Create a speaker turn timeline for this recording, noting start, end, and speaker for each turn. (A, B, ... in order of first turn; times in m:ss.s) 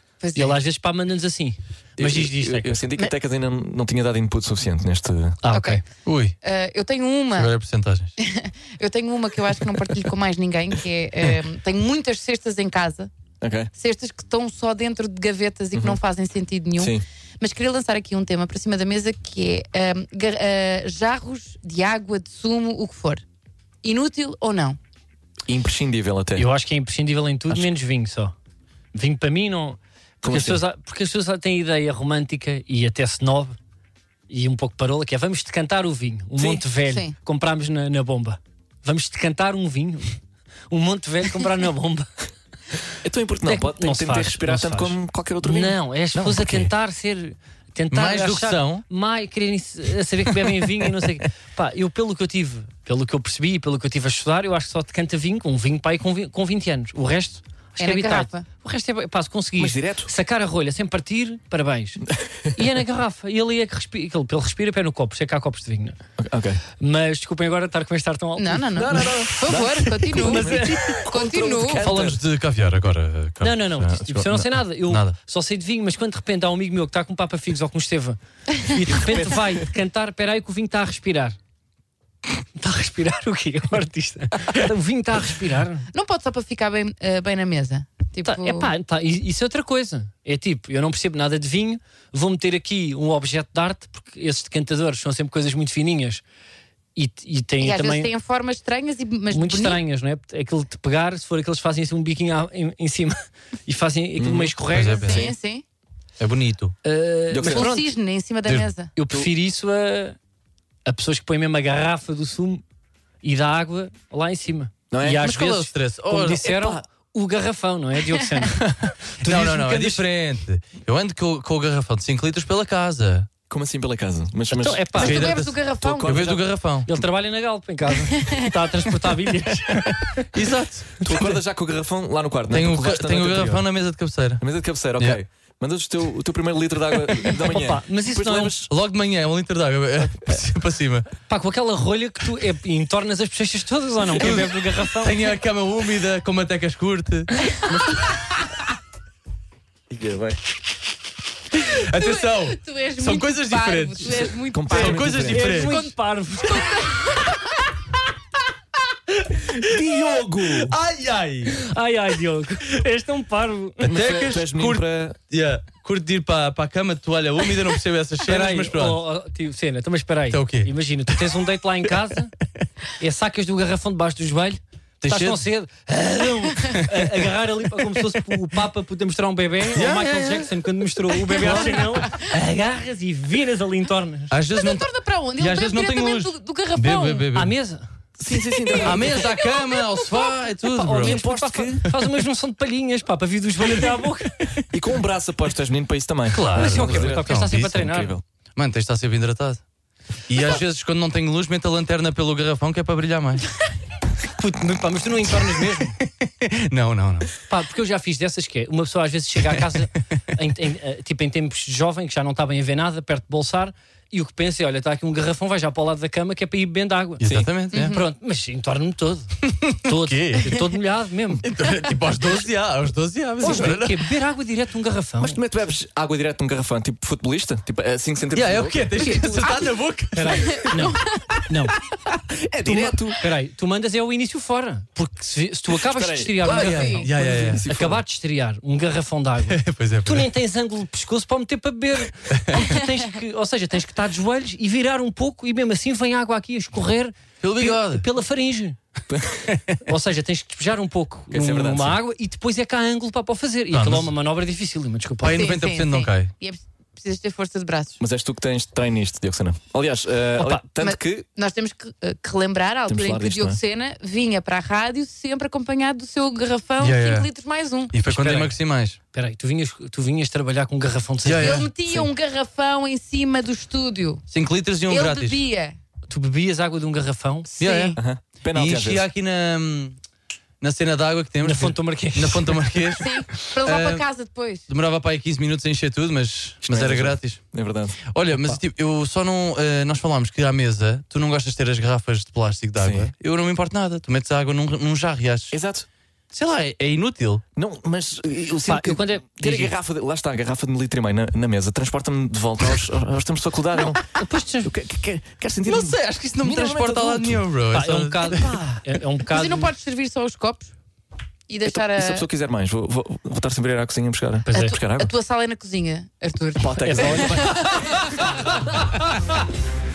0:00.2-0:00.6 A
0:00.3-0:02.8 B
0:02.0-0:05.4 C
0:05.4-0:05.8 B
0:05.5-0:05.8 A
0:06.0-0:06.4 D
0:06.4-0:07.5 A
0:07.3-0:08.1 D
0:08.2-0:13.1 A
0:13.4-0:13.7 C
0:13.7-0:23.2 A
0:16.8-0:17.0 C
0:23.8-0:24.8 A
0:25.5-0:26.5 C
0:26.4-0:28.3 B
0:28.9-0:33.6 B
0:30.2-0:30.6 C
0:34.3-0:40.2 B
0:36.8-0:37.1 A
0:40.7-0:42.1 B
0:43.0-0:46.7 C
0:43.4-1:06.0 B
0:47.9-0:48.8 D
0:57.8-0:58.4 A
0:59.6-1:00.1 C
1:02.2-1:02.5 C
1:06.2-1:06.6 C
1:06.8-1:09.0 B
1:08.4-1:11.9 A
1:08.7-1:12.2 C
1:10.2-1:11.0 B
1:11.8-1:15.1 D
1:13.4-1:21.4 B
1:22.6-1:25.9 B
1:25.9-1:28.7 A
1:28.2-1:36.2 B
1:37.0-1:38.1 B
1:37.6-1:39.8 A
1:39.3-1:45.1 B
1:44.2-1:45.3 C
1:44.7-1:45.3 D
1:45.0-1:45.6 A
1:46.2-1:46.8 D
1:46.8-1:47.9 B
1:47.3-1:47.7 C
1:47.5-1:48.9 A
1:48.9-1:50.2 B
1:50.8-1:52.6 B
1:53.2-2:00.0 B
1:54.9-1:55.3 C
1:55.2-1:56.7 D
1:59.2-2:03.3 D
2:03.5-2:05.3 C
2:04.5-2:05.3 B
2:05.0-2:06.2 A
2:05.0-2:06.9 D
2:05.8-2:06.4 C
2:06.8-2:10.3 B
2:08.2-2:08.5 A
2:10.1-2:11.3 D
2:11.0-2:13.6 C
2:12.5-2:14.4 D
2:14.4-2:18.7 C
2:17.3-2:18.6 B
2:18.7-2:21.1 D
2:21.3-2:25.2 B
2:24.1-2:27.4 D
2:29.9-2:30.4 C
2:31.5-2:35.8 D
2:31.9-2:37.5 A
2:34.5-2:35.7 C
2:35.3-2:36.8 B
2:39.6-2:40.7 C
2:40.4-2:41.6 D
2:41.5-2:43.9 B
2:43.8-2:45.2 C
2:43.8-2:49.0 D
2:48.2-2:52.3 B
2:50.3-2:51.2 D
2:53.0-3:04.3 B
2:55.0-2:55.4 D
2:59.7-3:00.6 D
3:01.3-3:01.9 D
3:04.3-3:07.5 D
3:04.5-3:07.2 A
3:07.3-3:07.9 B
3:08.2-3:09.2 C
3:08.5-3:10.3 A
3:08.8-3:11.2 D
3:10.6-3:14.5 B
3:10.9-3:11.8 C
3:14.7-3:18.2 C
3:16.3-3:17.7 D
3:16.5-3:18.2 B
3:18.6-3:19.6 D
3:20.3-3:23.5 D
3:24.4-3:26.0 B
3:26.1-3:27.3 D
3:27.5-3:41.4 B
3:37.2-3:38.0 D
3:37.2-3:37.5 C
3:37.7-3:38.0 A
3:39.5-3:40.7 D
3:41.4-3:44.1 D
3:43.4-3:45.4 B
3:45.2-3:49.0 C
3:48.3-3:50.8 D
3:49.0-3:49.4 B
3:49.0-3:49.7 A
3:50.1-3:51.8 B
3:50.5-3:51.4 A
3:52.3-3:53.2 C
3:52.6-4:08.8 B
3:55.7-3:58.0 C
3:56.4-3:57.1 A
3:56.4-3:57.6 D
3:59.5-4:00.3 D
4:02.3-4:02.6 D
4:07.4-4:08.0 D
4:09.1-4:09.5 C
4:09.5-4:09.8 D
4:09.8-4:15.5 B
4:11.3-4:12.0 C
4:13.7-4:14.1 D
4:15.2-4:16.3 D
4:15.3-4:18.0 A
4:18.0-4:21.2 C
4:20.4-4:20.6 B
4:20.8-4:27.9 A
4:22.9-4:23.6 C
4:26.8-4:27.3 D
4:27.9-4:29.0 D
4:28.0-4:28.5 B
4:29.1-4:31.7 B
4:31.2-4:31.7 D
4:31.4-4:34.2 A
4:34.3-4:35.4 D
4:34.9-4:35.8 A
4:36.1-4:37.5 B
4:37.5-4:38.0 A
4:37.6-4:38.0 D
4:38.0-4:39.1 C
4:38.5-4:40.0 D
4:40.6-4:44.0 D
4:41.4-4:42.9 B
4:43.0-4:44.6 A
4:44.7-4:47.4 D
4:46.6-4:48.0 C
4:48.1-4:55.6 D
4:52.8-4:53.1 C
4:55.5-4:55.9 C
4:56.3-4:57.4 D
4:57.6-5:07.4 C
4:58.6-4:59.7 B
5:04.2-5:04.7 B
5:05.6-5:08.8 D
5:07.7-5:09.7 B
5:09.3-5:10.7 A
5:11.5-5:12.2 A
5:11.6-5:15.1 C
5:14.5-5:14.8 B
5:14.5-5:18.0 A
5:16.6-5:17.8 C
5:16.8-5:17.4 B
5:17.5-5:19.4 D